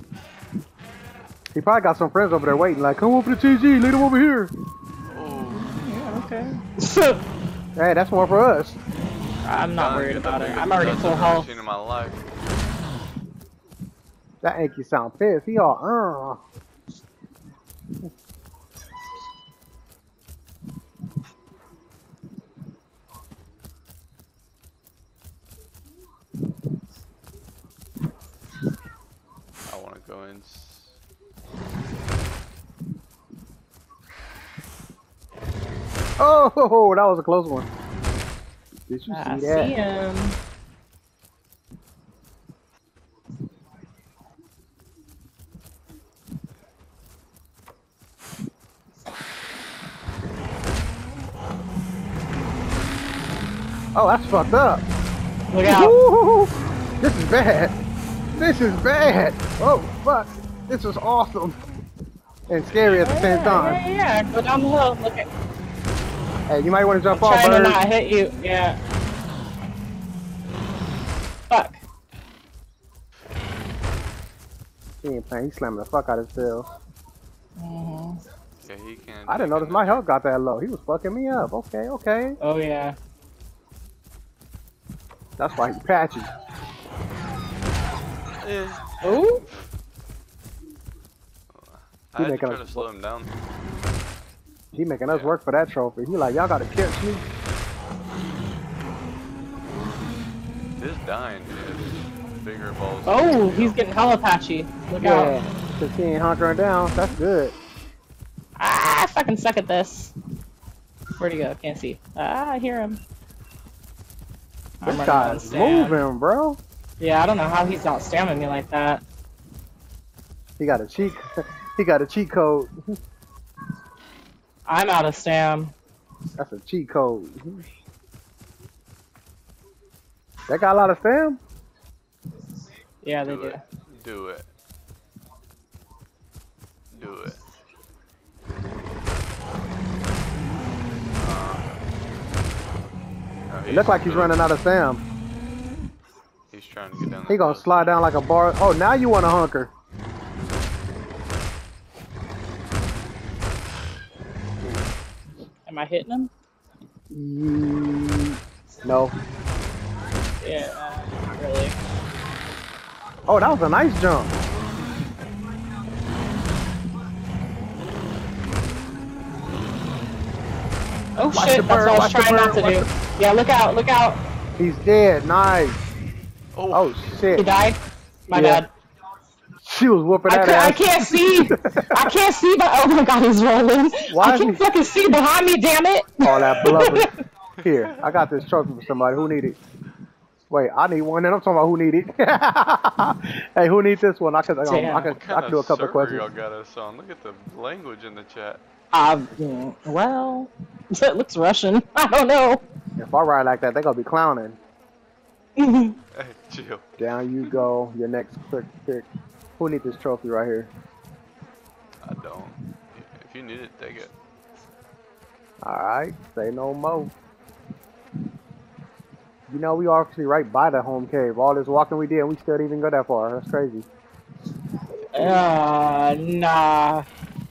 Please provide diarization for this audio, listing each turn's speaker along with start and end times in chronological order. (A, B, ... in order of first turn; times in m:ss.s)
0:01.5-0:04.5 A
0:05.1-0:05.7 B
0:05.9-0:07.2 C
0:07.8-0:08.8 A
0:09.4-0:11.5 C
0:09.7-0:12.3 B
0:14.4-0:16.4 A
0:29.7-0:31.0 B
0:36.2-0:37.7 A
0:38.9-0:39.7 A
0:39.1-0:40.4 C
0:54.0-0:54.8 A
0:55.5-0:56.0 C
0:55.6-0:57.7 A
0:58.4-1:01.6 A
1:02.5-1:03.8 A
1:03.0-1:05.3 C
1:06.5-1:07.8 A
1:07.1-1:08.8 C
1:11.5-1:11.8 C
1:15.0-1:16.7 A
1:17.6-1:18.2 C
1:18.6-1:20.0 B
1:19.3-1:22.4 A
1:22.4-1:23.0 C
1:25.4-1:26.3 A
1:28.4-1:29.6 B
1:29.0-1:29.4 C
1:31.5-1:33.3 B
1:32.2-1:32.9 A
1:34.7-1:37.2 A
1:35.1-1:35.4 B
1:40.8-1:43.8 B
1:43.1-1:45.5 C
1:45.0-1:47.6 A
1:48.6-1:50.1 C
1:51.2-1:53.0 C
1:54.8-1:56.0 C
1:54.8-1:56.6 A
1:57.0-1:59.0 C
2:00.6-2:01.2 A
2:01.8-2:02.7 A
2:04.7-2:05.7 C
2:06.4-2:07.6 A
2:10.5-2:11.4 A
2:13.0-2:13.6 C
2:13.2-2:14.5 B
2:16.9-2:17.4 B
2:21.2-2:21.8 B
2:23.5-2:24.4 B
2:23.7-2:25.0 A
2:26.5-2:28.1 B
2:27.3-2:29.7 A
2:35.7-2:36.3 C
2:37.1-2:39.2 A
2:40.4-2:41.8 C
2:43.3-2:44.3 A
2:51.2-2:54.2 C
2:51.3-2:52.9 A
2:54.6-2:55.8 A
2:56.6-2:57.3 B
2:56.7-2:57.5 A
2:57.3-2:58.7 C
2:58.3-2:58.6 A
2:59.6-3:02.1 A
3:00.3-3:07.1 C
3:04.1-3:04.6 A
3:06.2-3:07.1 A
3:07.6-3:08.2 B
3:07.6-3:09.6 A
3:10.5-3:16.3 A
3:14.6-3:15.1 C
3:15.0-3:18.6 B
3:18.9-3:22.6 C
3:23.0-3:24.6 A
3:25.6-3:26.0 C
3:26.1-3:27.6 B
3:27.0-3:29.1 A
3:29.6-3:30.7 A
3:32.0-3:34.1 B
3:35.6-3:37.1 A
3:39.5-3:43.9 A
3:45.1-3:47.1 C
3:45.2-3:45.4 A